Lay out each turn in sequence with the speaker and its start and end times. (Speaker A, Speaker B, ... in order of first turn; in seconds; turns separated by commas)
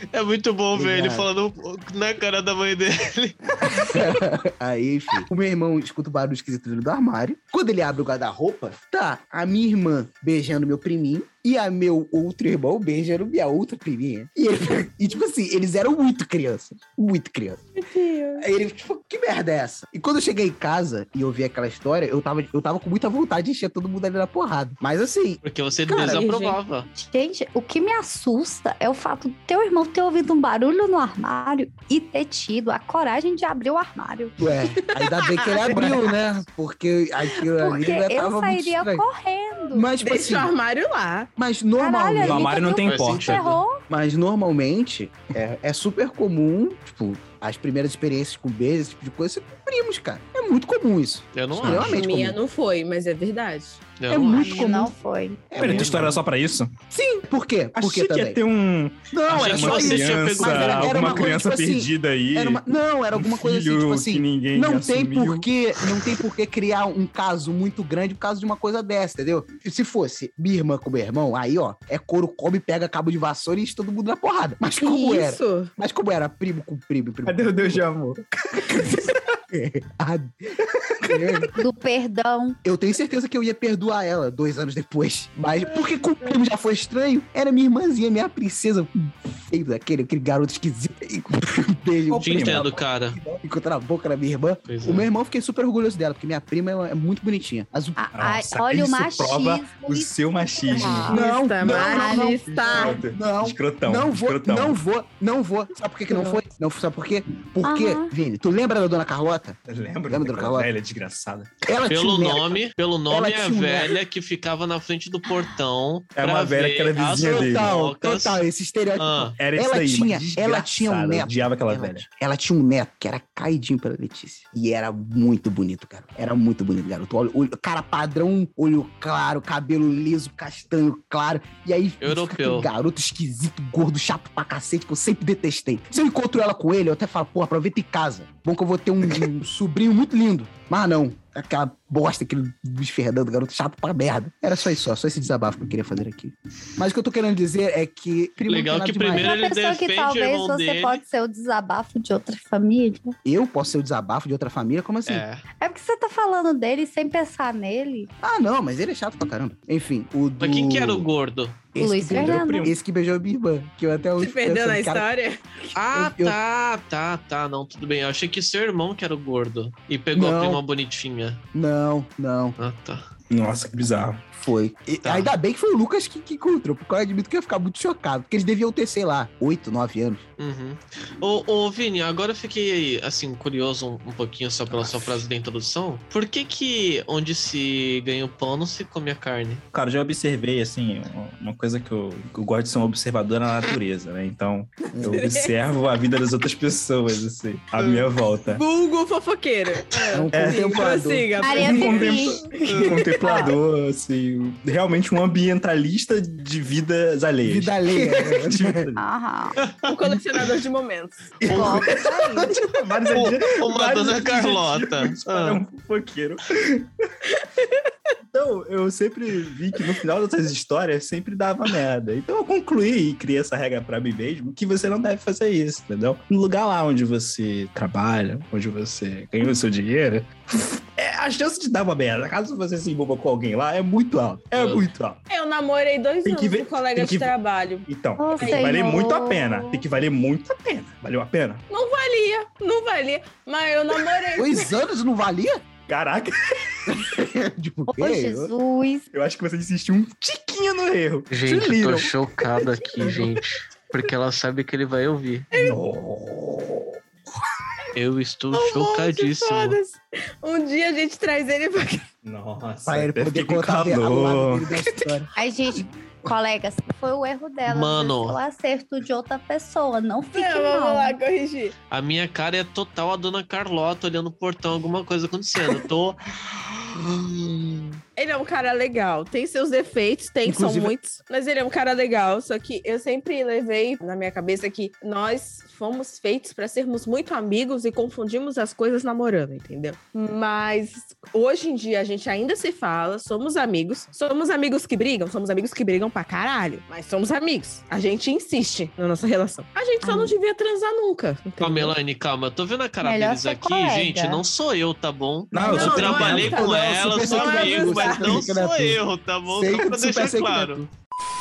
Speaker A: 0.1-4.0, Speaker B: 0.7-1.3, Speaker B: 3.8-17.7, Speaker C: 17.8-18.4, Speaker B: 18.4-26.4, Speaker A: 25.4-26.9, Speaker C: 26.1-26.5, Speaker D: 26.9-34.4, Speaker B: 34.4-39.0, Speaker C: 35.0-36.1, Speaker D: 37.4-39.9, Speaker B: 39.7-40.5, Speaker C: 40.0-41.3, Speaker B: 41.4-42.8, Speaker D: 41.8-43.8, Speaker E: 42.2-43.5, Speaker A: 42.9-43.6, Speaker B: 43.9-52.4, Speaker A: 51.3-52.0, Speaker E: 51.6-52.0, Speaker C: 51.8-54.5, Speaker A: 54.0-54.7, Speaker B: 54.1-55.0, Speaker D: 54.4-55.5, Speaker B: 55.5-56.2, Speaker E: 55.6-56.7, Speaker A: 55.6-56.1, Speaker B: 56.9-58.4, Speaker E: 57.8-62.6, Speaker B: 59.1-77.8, Speaker A: 59.3-61.3, Speaker E: 63.1-65.5, Speaker C: 74.8-75.7, Speaker E: 77.2-78.8, Speaker B: 78.6-80.3, Speaker B: 81.0-81.5, Speaker D: 81.6-82.6, Speaker B: 82.6-98.0, Speaker E: 92.1-92.8, Speaker A: 92.2-93.2, Speaker A: 94.7-95.1, Speaker D: 98.0-103.0, Speaker E: 98.1-104.8, Speaker B: 100.8-109.6, Speaker C: 101.1-103.0, Speaker D: 106.1-106.4, Speaker D: 107.6-108.1, Speaker E: 109.7-111.5, Speaker B: 110.1-110.7, Speaker B: 111.7-114.0, Speaker A: 111.9-118.5, Speaker E: 116.2-117.8, Speaker B: 117.2-149.3, Speaker A: 119.0-119.4, Speaker E: 119.4-122.0, Speaker A: 132.0-132.7, Speaker A: 148.5-151.0, Speaker D: 149.2-153.2, Speaker B: 153.2-155.2, Speaker A: 155.1-155.4, Speaker D: 155.6-158.1, Speaker B: 158.2-161.1, Speaker A: 160.4-161.6, Speaker B: 161.8-165.1, Speaker D: 161.8-162.7, Speaker E: 162.0-162.7, Speaker C: 164.2-165.4, Speaker B: 165.7-166.4, Speaker A: 165.8-171.4, Speaker B: 170.1-170.6, Speaker B: 171.5-172.6, Speaker A: 172.6-173.0, Speaker E: 173.3-174.2, Speaker B: 174.3-180.2, Speaker A: 175.0-175.3, Speaker A: 180.4-189.6, Speaker E: 189.7-198.6, Speaker B: 194.9-195.2, Speaker C: 195.1-195.5, Speaker C: 198.5-202.8, Speaker B: 200.1-201.8, Speaker E: 200.3-201.0, Speaker D: 201.3-202.5, Speaker E: 201.5-209.0, Speaker A: 202.7-203.0, Speaker D: 203.2-203.6, Speaker B: 207.4-208.8, Speaker D: 209.0-209.6, Speaker C: 209.9-211.3, Speaker E: 211.4-216.9, Speaker D: 211.5-212.6, Speaker A: 211.5-211.8, Speaker B: 211.6-212.5, Speaker A: 213.1-215.6, Speaker E: 218.3-230.3, Speaker E: 231.0-235.2, Speaker A: 234.6-234.8, Speaker C: 235.3-237.9, Speaker E: 236.2-237.3, Speaker E: 237.9-241.6, Speaker D: 238.2-239.9, Speaker C: 238.4-238.7, Speaker C: 241.7-244.7, Speaker B: 244.4-245.6, Speaker E: 245.9-246.8, Speaker B: 246.9-248.5, Speaker D: 247.9-249.1, Speaker E: 249.1-253.3, Speaker A: 251.3-255.5, Speaker E: 255.5-257.0, Speaker A: 257.9-259.8, Speaker C: 258.5-262.1, Speaker E: 262.2-264.9, Speaker B: 262.9-265.3, Speaker D: 265.4-271.2, Speaker A: 267.7-268.4, Speaker C: 270.3-271.7, Speaker A: 271.9-276.2, Speaker A: 277.0-277.9, Speaker C: 278.2-301.9, Speaker B: 280.4-280.9, Speaker D: 300.0-300.4, Speaker A: 301.6-310.9, Speaker D: 303.0-304.4, Speaker E: 305.5-306.6, Speaker B: 305.6-310.9, Speaker C: 305.6-308.5